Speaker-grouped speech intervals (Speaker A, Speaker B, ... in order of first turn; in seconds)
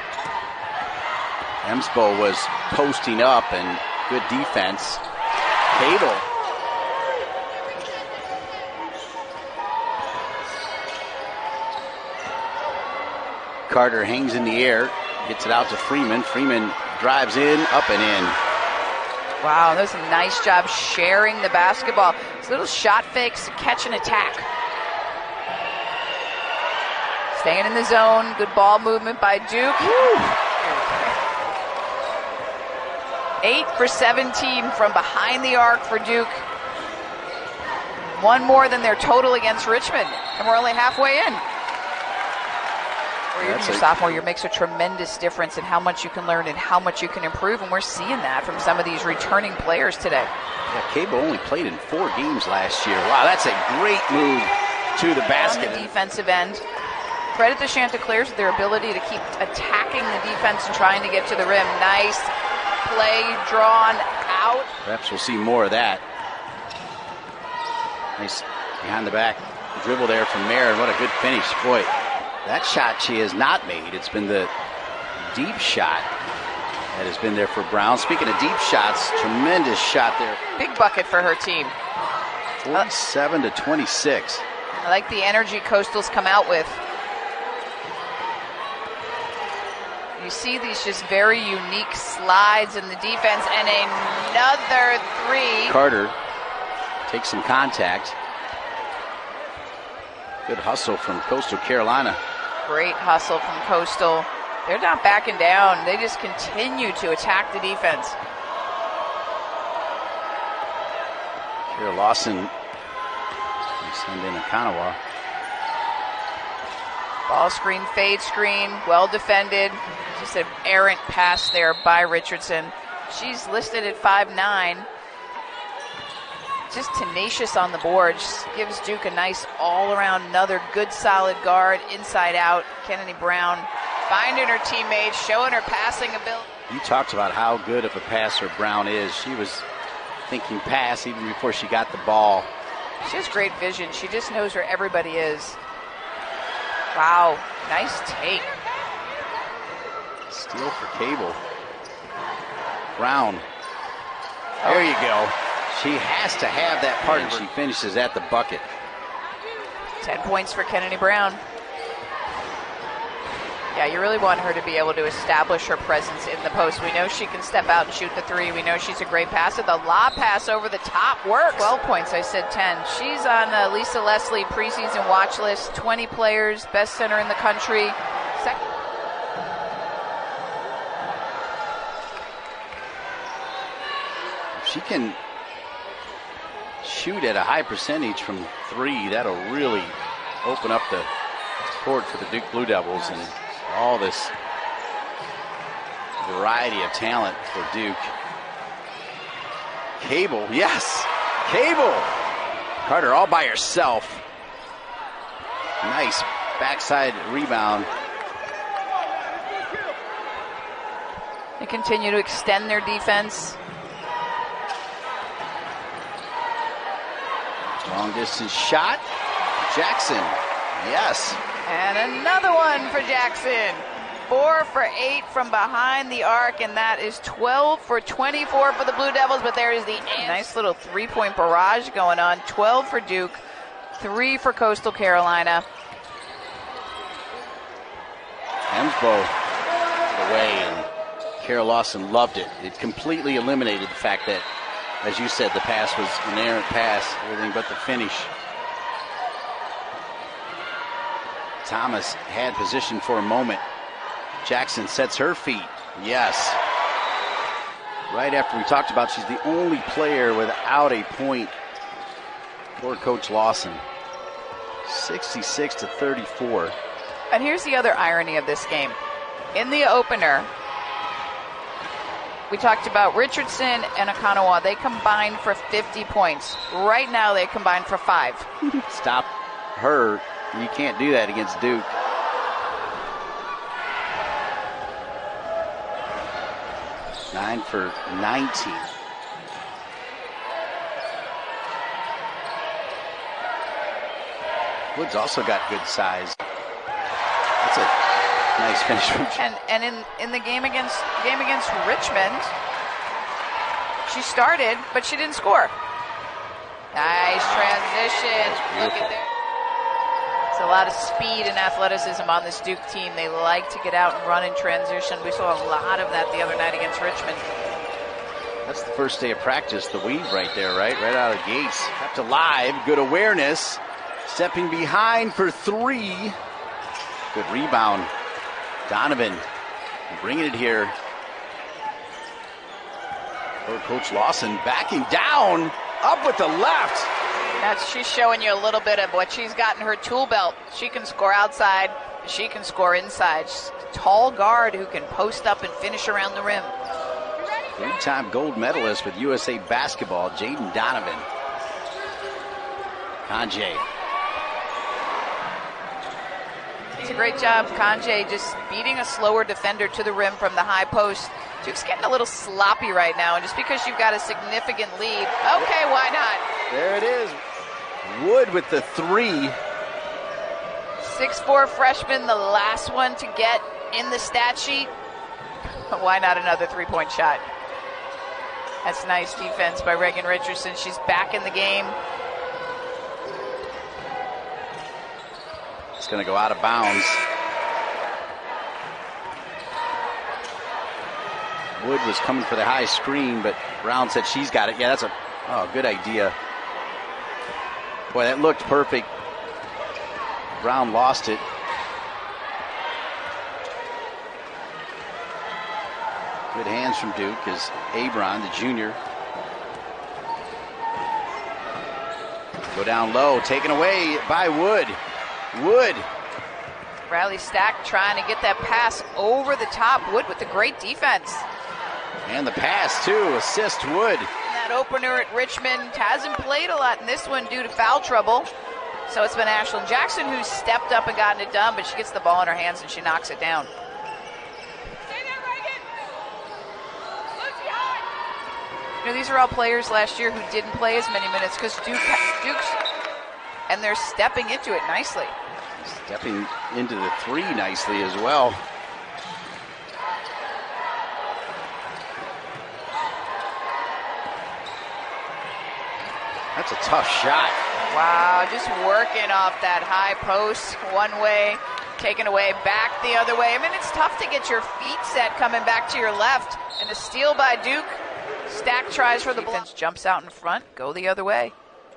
Speaker A: 1.6-5.0, 5.7-6.2, 13.7-18.4, 43.4-44.2, 50.7-55.9, 64.8-66.0, 68.2-71.9, 72.4-74.5, 75.2-76.1, 76.9-80.4, 82.6-84.4, 95.6-96.2, 97.1-98.2, 100.5-102.2, 111.7-112.5, 113.8-115.0, 136.7-139.7, 140.3-142.5, 150.3-151.4, 152.9-153.4, 154.6-158.7, 184.5-185.2, 186.8-191.1, 191.8-194.3, 196.2-198.1, 200.0-202.2, 202.8-204.2, 205.8-207.9, 217.8-219.0, 219.6-221.4, 238.7-239.3, 240.1-244.4, 245.0-248.3, 251.6-253.6, 254.4-256.6, 258.1-261.5, 262.8-263.8, 264.8-266.8, 278.7-281.9, 287.3-288.9, 294.9-296.4, 297.6-297.9, 298.6-299.4, 307.3-309.1, 318.6-326.4, 327.3-328.1, 328.9-329.5, 330.1-331.0, 333.6-337.1, 347.8-351.3, 353.2-353.8, 366.7-367.4, 368.0-369.6, 386.0-387.2, 391.8-396.3, 398.1-399.1, 400.6-401.4, 406.5-409.0, 412.7-415.0, 415.5-416.1, 422.2-424.3, 445.8-448.6, 456.5-457.6
Speaker B: 19.4-24.5, 27.3-31.1, 33.4-36.5, 38.1-41.4, 43.3-50.3, 55.3-56.6, 57.3-62.3, 62.8-64.7, 80.6-81.8, 84.7-86.8, 90.2-95.8, 102.6-108.2, 117.3-124.9, 126.7-136.5, 143.0-145.6, 146.9-148.5, 154.6-154.9, 160.0-161.4, 163.7-178.7, 193.0-193.3, 211.6-213.6, 221.7-233.4, 233.9-235.7, 267.3-269.0, 269.5-270.5, 272.5-278.5, 299.4-302.5, 304.1-305.7, 306.9-309.3, 310.5-317.4, 337.6-346.8, 357.0-366.4, 371.0-374.9, 375.9-377.5, 378.8-382.0, 417.1-421.5, 424.4-428.5, 429.1-433.7, 439.0-442.8, 443.7-445.3, 457.9-471.5